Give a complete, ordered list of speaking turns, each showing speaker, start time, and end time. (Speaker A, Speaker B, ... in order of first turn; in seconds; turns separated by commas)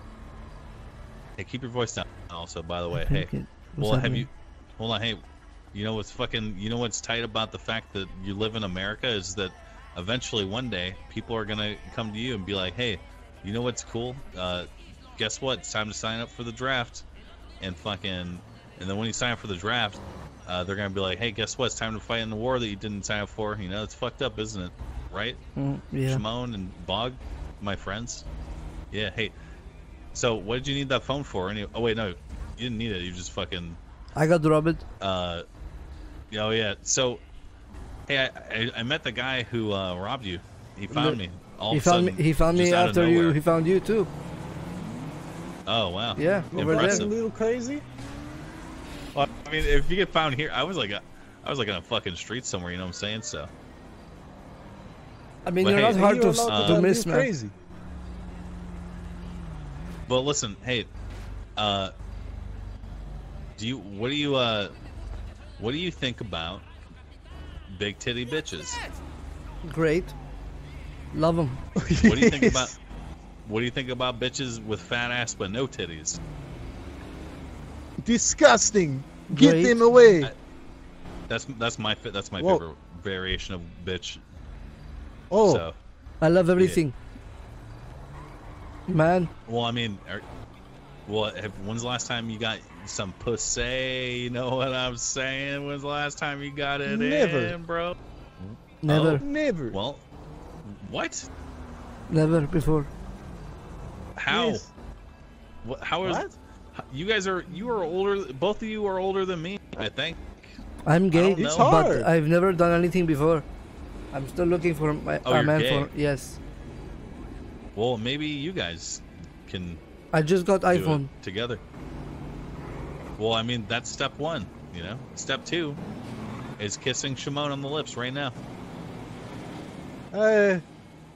Speaker A: 1.4-17.1, Speaker B: 2.9-4.2, Speaker A: 17.6-25.4, Speaker B: 25.6-26.2, Speaker A: 26.0-28.2, Speaker A: 28.9-29.3, Speaker A: 30.1-33.8, Speaker B: 34.1-34.8, Speaker A: 35.0-35.4, Speaker A: 36.3-37.2, Speaker A: 38.1-43.4, Speaker B: 40.9-41.2, Speaker B: 41.7-44.1, Speaker A: 45.6-47.2, Speaker B: 46.2-47.1, Speaker C: 46.5-47.8, Speaker A: 49.1-53.5, Speaker B: 55.5-57.3, Speaker A: 55.6-56.9, Speaker C: 55.8-57.5, Speaker A: 60.1-60.9, Speaker A: 61.6-61.9, Speaker A: 63.6-64.7, Speaker A: 65.6-66.7, Speaker A: 67.7-68.8, Speaker B: 69.6-70.1, Speaker B: 71.1-71.6, Speaker C: 71.8-72.7, Speaker A: 72.0-72.7, Speaker A: 73.4-76.2, Speaker C: 78.0-80.3, Speaker B: 79.3-79.8, Speaker A: 81.3-84.2, Speaker C: 85.3-85.6, Speaker A: 85.4-85.7, Speaker B: 86.2-86.9, Speaker B: 88.9-89.3, Speaker A: 89.5-90.2, Speaker A: 91.1-98.0, Speaker C: 96.8-97.5, Speaker B: 98.8-99.2, Speaker A: 98.9-99.2, Speaker C: 99.1-99.7, Speaker A: 99.7-100.0, Speaker A: 100.7-101.3, Speaker B: 102.1-102.9, Speaker A: 104.2-104.7, Speaker C: 104.3-104.6, Speaker A: 105.6-110.5, Speaker C: 106.0-106.3, Speaker B: 110.8-113.5, Speaker A: 111.1-111.8, Speaker C: 111.4-112.1, Speaker B: 114.1-116.4, Speaker A: 115.2-115.9, Speaker A: 117.7-119.8, Speaker B: 120.1-121.1, Speaker A: 120.7-121.6, Speaker A: 123.2-125.8, Speaker A: 126.6-128.3, Speaker C: 130.1-130.6